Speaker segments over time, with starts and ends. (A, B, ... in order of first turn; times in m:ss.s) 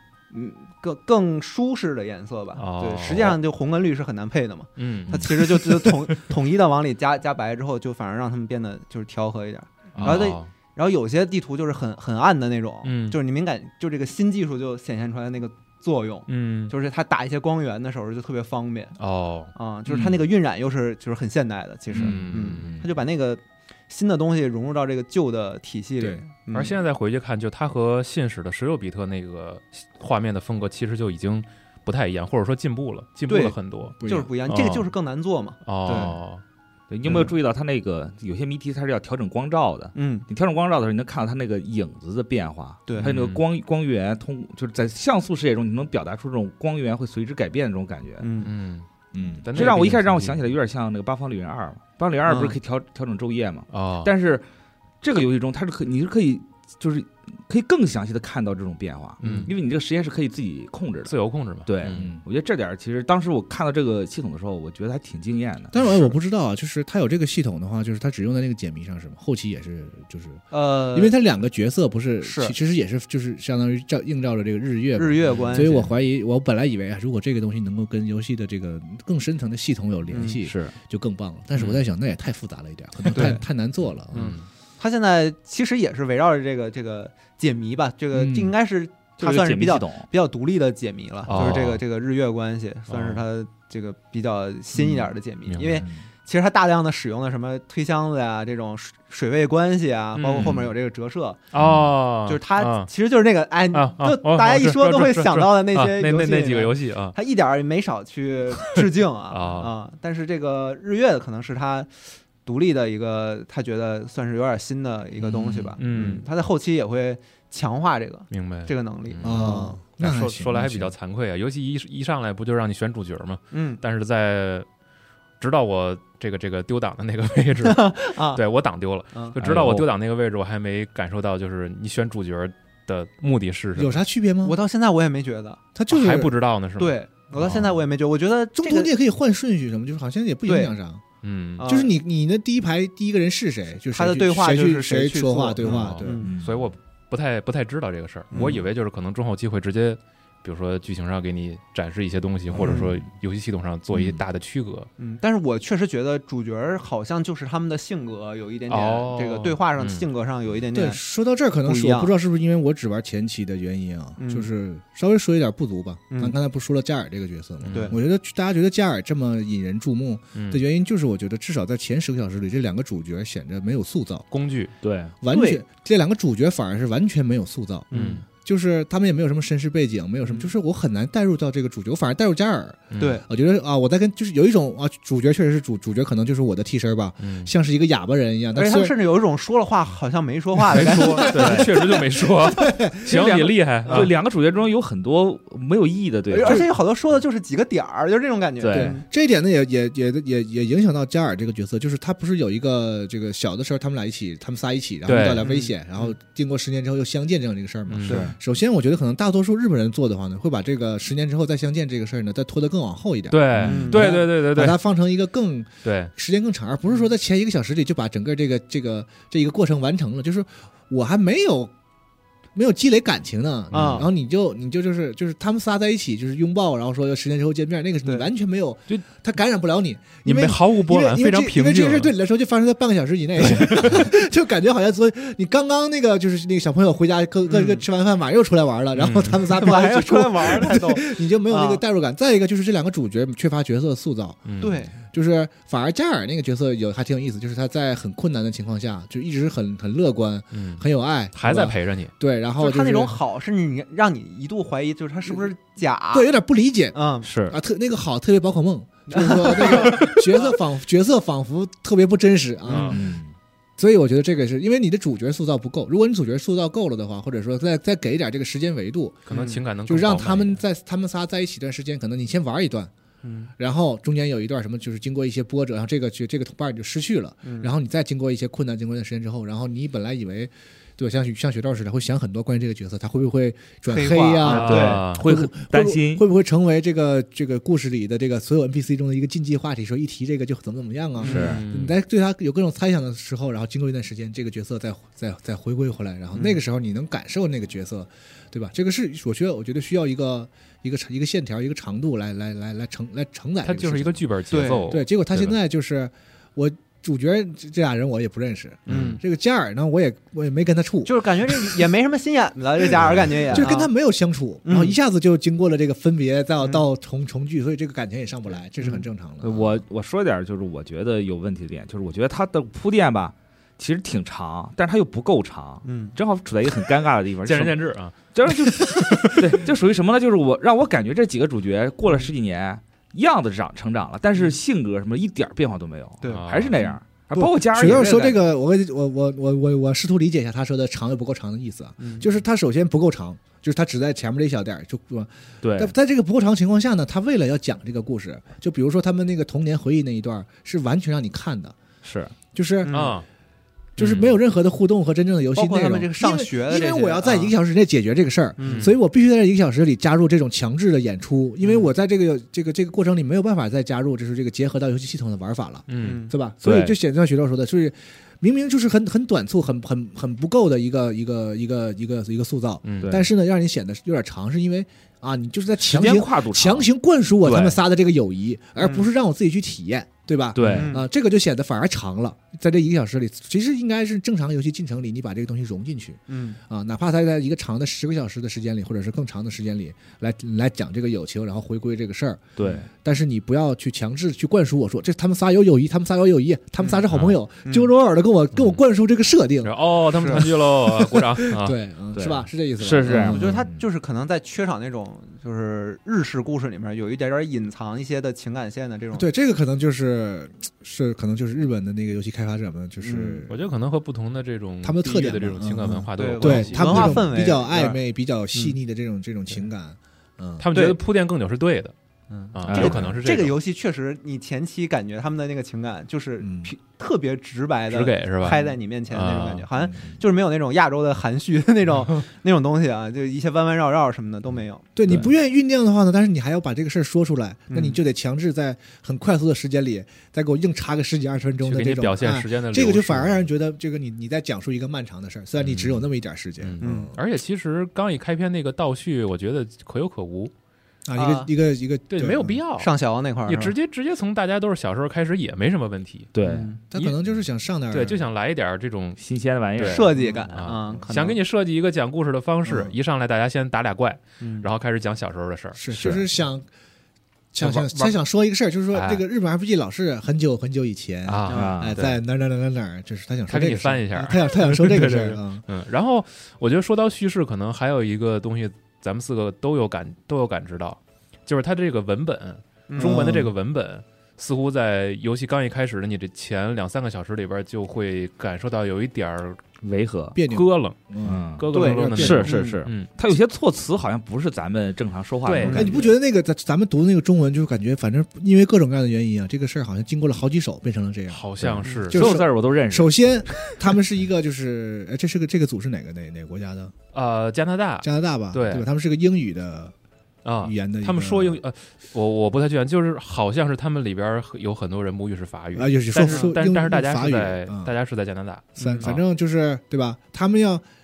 0:00.3-0:19.0 A
0:02.6-0:03.4 B
0:04.8-0:06.2 B
0:10.0-0:10.5 B
0:12.8-0:13.2 B
0:16.3-0:16.7 B
0:19.0-0:19.5 B
0:19.5-0:26.8 A
0:19.9-0:20.2 C
0:21.9-0:22.9 B
0:26.5-0:34.0 B
0:33.3-0:36.2 A
0:34.0-0:34.3 C
0:34.5-0:34.9 B
0:35.6-0:36.4 B
0:36.9-0:48.3 D
0:40.0-0:40.3 A
0:42.9-0:43.2 A
0:43.0-0:43.4 B
0:48.2-0:48.5 A
0:48.4-0:48.9 B
0:49.1-0:49.5 C
0:49.4-0:50.5 B
0:49.5-0:54.4 D
0:52.3-0:52.6 A
0:53.7-0:54.1 B
0:55.0-1:01.2 D
0:59.2-0:59.5 B
1:01.1-1:02.1 B
1:01.7-1:05.9 D
1:01.9-1:02.2 C
1:05.7-1:10.4 C
1:05.8-1:06.1 A
1:10.5-1:11.2 A
1:10.9-1:24.2 C
1:12.2-1:12.6 A
1:15.0-1:15.8 A
1:15.3-1:15.9 D
1:20.1-1:20.4 A
1:20.4-1:20.8 D
1:21.6-1:21.8 B
1:23.1-1:23.4 A
1:24.1-1:24.5 B
1:24.1-1:41.4 A
1:28.1-1:28.5 C
1:29.2-1:30.1 D
1:31.3-1:31.8 B
1:32.9-1:33.2 B
1:35.5-1:35.9 B
1:35.8-1:36.1 D
1:40.2-1:40.7 B
1:41.5-1:42.9 B
1:42.3-1:59.8 A
1:43.7-1:47.2 B
1:48.6-1:49.7 B
1:55.2-1:55.8 C
1:55.8-1:56.2 B
1:58.3-2:04.7 B
1:59.2-2:00.9 C
2:03.5-2:03.8 A
2:05.4-2:14.0 B
2:07.6-2:08.4 A
2:09.4-2:09.8 C
2:09.4-2:09.7 D
2:13.8-2:14.6 C
2:14.4-2:15.6 A
2:15.8-2:16.3 C
2:15.9-2:17.8 B
2:16.8-2:18.9 A
2:18.6-2:21.0 C
2:20.5-2:20.7 A
2:21.2-2:21.7 B
2:21.6-2:21.9 A
2:21.6-2:26.2 C
2:23.9-2:26.3 A
2:25.6-2:34.9 B
2:26.2-2:26.7 D
2:28.3-2:28.6 A
2:32.5-2:32.8 C
2:32.6-2:32.9 A
2:35.0-2:41.0 A
2:38.7-2:40.0 B
2:40.7-2:54.3 C
2:41.6-2:42.1 A
2:44.2-2:44.5 A
2:46.1-2:46.4 A
2:47.6-2:48.0 B
2:47.7-2:48.0 A
2:50.4-2:50.6 B
2:54.3-2:54.7 B
2:54.8-2:55.1 D
2:55.2-3:08.9 C
2:55.3-2:55.6 A
2:57.9-2:58.2 A
2:57.9-2:58.2 B
3:00.2-3:00.5 A
3:02.9-3:03.2 B
3:03.0-3:03.2 A
3:07.2-3:07.5 B
3:08.6-3:11.6 A
3:10.7-3:14.1 B
3:10.9-3:13.1 C
3:11.4-3:11.7 D
3:13.1-3:16.7 D
3:13.9-3:14.1 A
3:16.3-3:19.1 A
3:16.4-3:16.7 C
3:18.6-3:19.0 D
3:18.7-3:41.7 C
3:25.1-3:25.4 B
3:25.4-3:26.2 A
3:27.9-3:28.2 B
3:28.1-3:28.4 D
3:33.3-3:34.8 B
3:33.6-3:33.8 D
3:33.6-3:34.0 A
3:35.8-3:36.1 B
3:42.6-4:13.2 C
3:43.7-3:44.1 A
3:50.2-3:52.1 B
3:53.5-3:54.0 B
3:57.5-3:57.8 A
3:59.0-3:59.4 B
3:59.5-4:01.8 A
4:04.5-4:04.8 B
4:04.6-4:05.0 A
4:10.5-4:12.1 B
4:12.6-4:16.3 A
4:16.1-4:23.1 C
4:16.9-4:17.3 A
4:17.2-4:17.6 D
4:19.1-4:20.6 A
4:22.7-4:23.0 A
4:22.9-4:23.4 D
4:23.8-4:32.9 C
4:29.3-4:30.6 B
4:29.3-4:29.6 A
4:33.2-4:33.5 A
4:33.6-5:04.3 C
4:37.4-4:37.7 A
4:43.9-4:45.0 A
4:44.4-4:45.2 B
4:44.5-4:46.2 D
4:51.2-4:51.5 A
4:51.2-4:51.6 D
4:51.2-4:52.0 B
4:56.3-4:56.6 A
5:03.6-5:05.6 B
5:04.5-5:05.0 A
5:04.9-5:11.9 C
5:08.9-5:09.2 B
5:08.9-5:09.2 A
5:11.0-5:13.9 A
5:12.8-5:19.8 C
5:14.6-5:15.0 A
5:18.8-5:19.1 A
5:19.4-5:38.2 D
5:25.8-5:26.2 A
5:27.4-5:29.4 B
5:36.2-5:36.9 A
5:36.3-5:36.8 B
5:37.3-5:51.8 C
5:37.8-5:38.4 A
5:42.0-5:42.3 A
5:45.6-5:45.9 D
5:52.0-5:52.4 D
5:52.5-5:53.0 C
5:52.8-5:53.2 A
5:52.9-5:53.3 B
5:54.0-6:43.6 C
5:54.0-5:54.3 B
5:55.6-5:57.5 A
5:58.6-5:58.9 A
5:58.6-5:59.0 B
6:01.6-6:01.9 A
6:05.9-6:06.2 B
6:06.0-6:06.3 A
6:06.6-6:07.0 D
6:12.8-6:13.2 B
6:13.0-6:13.3 D
6:15.8-6:16.9 D
6:17.4-6:17.8 D
6:18.8-6:19.1 A
6:20.6-6:20.9 D
6:20.6-6:21.1 A
6:26.3-6:26.6 A
6:32.6-6:32.9 D
6:37.1-6:37.4 B
6:37.6-6:37.9 A
6:38.6-6:38.8 B
6:39.6-6:41.8 B
6:40.2-6:40.4 A
6:42.1-6:43.9 D
6:43.1-6:49.3 A
6:49.1-6:53.6 C
6:53.0-6:53.4 A
6:53.5-6:57.3 B
6:54.8-7:00.7 C
6:56.2-6:58.0 A
7:00.6-7:01.9 B
7:00.7-7:01.0 A
7:02.3-7:14.9 A
7:02.5-7:03.6 B
7:02.7-7:03.1 D
7:02.7-7:03.2 C
7:06.4-7:06.7 C
7:07.9-7:09.6 B
7:15.0-7:27.2 C
7:17.7-7:18.0 A
7:21.6-7:23.4 B
7:25.6-7:26.0 B
7:26.6-7:30.5 B
7:26.8-7:27.1 A
7:31.1-7:32.6 C
7:31.2-7:31.5 A
7:32.1-7:32.9 B
7:32.8-7:33.8 A
7:33.5-7:36.3 B
7:36.4-7:36.7 D
7:36.4-7:36.8 A
7:36.9-7:38.2 C
7:37.9-7:39.2 B
7:39.2-7:40.2 D
7:39.8-7:45.9 B
7:39.8-7:41.4 A
7:42.7-7:42.9 C
7:44.4-7:44.7 A
7:45.8-7:46.7 C
7:46.0-7:46.2 D
7:47.5-7:55.6 C
7:47.6-7:48.2 B
7:48.9-7:49.2 B
7:51.2-7:52.2 B
7:51.5-7:51.7 A
7:51.5-7:52.0 D
7:53.5-8:09.6 B
8:02.9-8:03.2 A
8:03.0-8:03.5 C
8:09.8-8:10.4 D
8:10.4-8:12.5 C
8:10.5-8:13.1 B
8:11.2-8:16.1 D
8:11.7-8:12.8 A
8:15.4-8:16.0 B
8:15.6-8:16.0 A
8:15.7-8:26.9 C
8:21.3-8:22.3 B
8:22.1-8:23.1 D
8:27.1-8:28.9 B
8:28.0-8:29.9 C
8:30.4-8:39.2 B
8:30.6-8:31.6 C
8:35.8-8:37.9 C
8:36.2-8:36.5 A
8:38.8-8:39.1 A
8:38.8-8:40.8 C